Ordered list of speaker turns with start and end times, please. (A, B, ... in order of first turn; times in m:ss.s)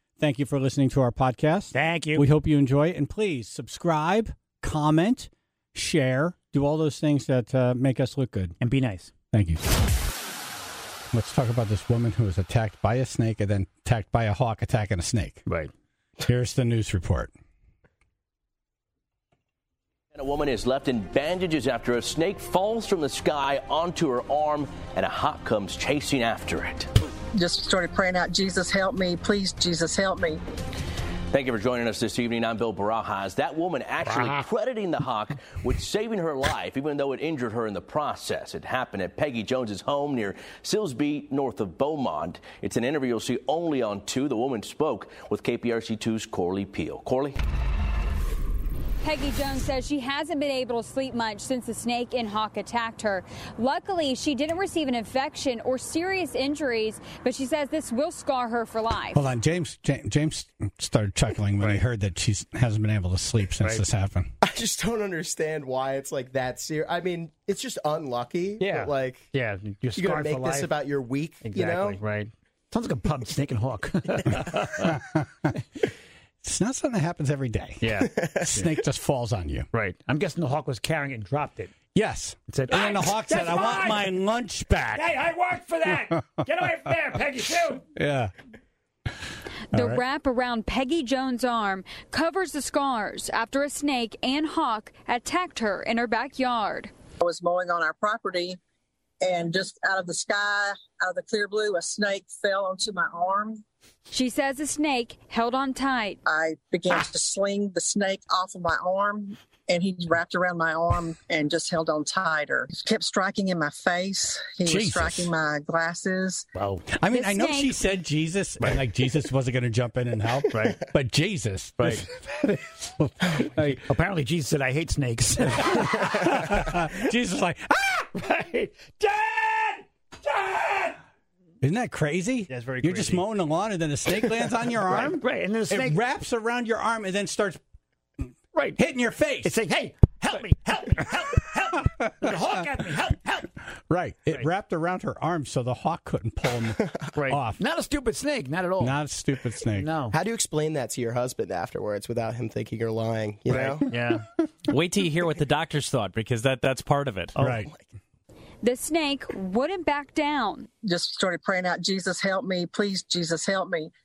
0:00.2-0:08.6 A
0:01.7-0:02.3 B
0:08.6-0:09.1 B
0:09.3-0:09.8 A
0:11.1-0:15.5 A
0:16.2-0:17.3 A
0:20.1-0:26.9 C
0:27.3-0:30.4 D
0:31.3-0:47.4 C
0:34.0-0:34.5 B
0:49.0-0:59.2 E
0:59.1-1:04.3 A
1:04.4-1:09.2 F
1:08.6-1:10.7 B
1:10.0-1:12.0 F
1:11.4-1:14.9 B
1:14.9-1:15.2 A
1:16.4-1:19.7 A
1:17.8-1:18.7 B
1:19.7-1:21.7 B
1:22.0-1:25.1 A
1:22.5-1:24.1 B
1:25.0-1:27.8 B
1:28.0-1:28.3 A
1:29.7-1:30.0 A
1:29.8-1:36.9 E
1:37.2-1:38.6 D
1:39.2-1:43.6 D
1:44.1-1:46.2 E
1:46.3-1:56.5 D
1:54.7-1:55.3 B
1:56.6-1:56.9 B
1:56.9-2:03.9 A
1:57.1-1:57.7 E
2:00.5-2:00.8 B
2:03.9-2:06.7 B
2:06.1-2:08.1 A
2:08.2-2:11.0 B
2:11.6-2:17.6 A
2:12.5-2:13.2 B
2:14.9-2:16.0 B
2:18.5-2:18.8 B
2:18.8-2:19.5 A
2:19.4-2:23.5 B
2:23.9-2:27.6 A
2:27.2-2:29.0 B
2:28.8-2:29.9 A
2:29.8-2:30.2 B
2:30.1-2:33.8 F
2:33.5-2:34.2 B
2:34.7-2:37.4 G
2:37.4-2:37.7 A
2:38.6-2:40.7 E
2:40.8-2:43.9 D